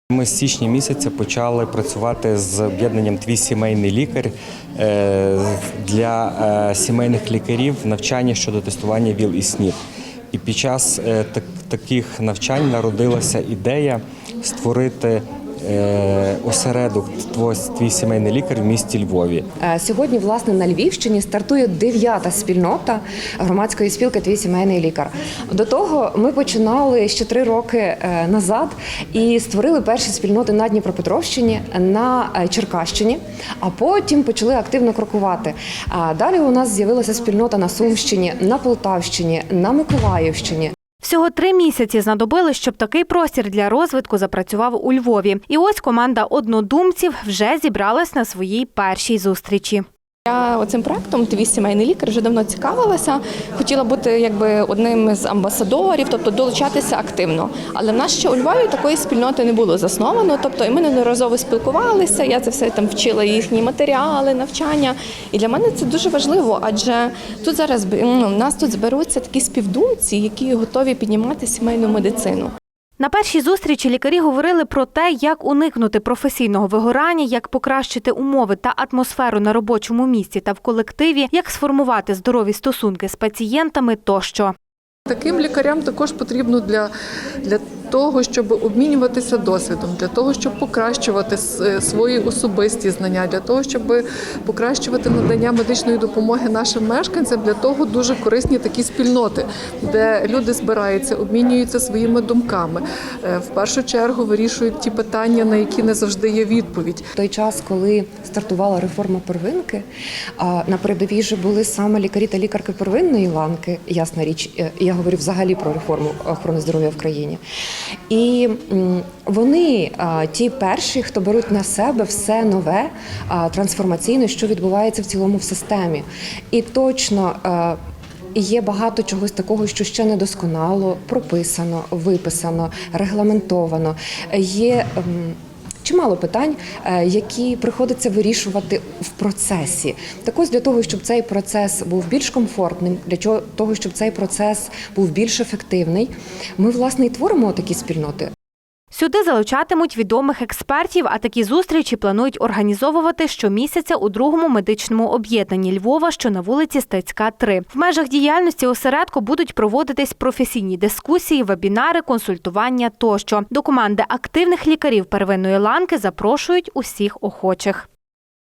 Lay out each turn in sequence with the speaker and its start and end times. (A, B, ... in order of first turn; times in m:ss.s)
0:00.1-0:09.8 A
0:10.3-0:19.5 A
0:19.6-0:40.7 B
0:41.0-0:49.8 C
0:50.3-1:12.5 D
1:13.0-1:24.5 C
1:25.1-1:26.9 E
1:27.4-1:47.1 E
1:47.2-1:49.8 B
1:50.4-1:57.4 B
1:58.1-2:07.8 B
2:08.4-2:28.3 B
2:28.9-2:47.9 C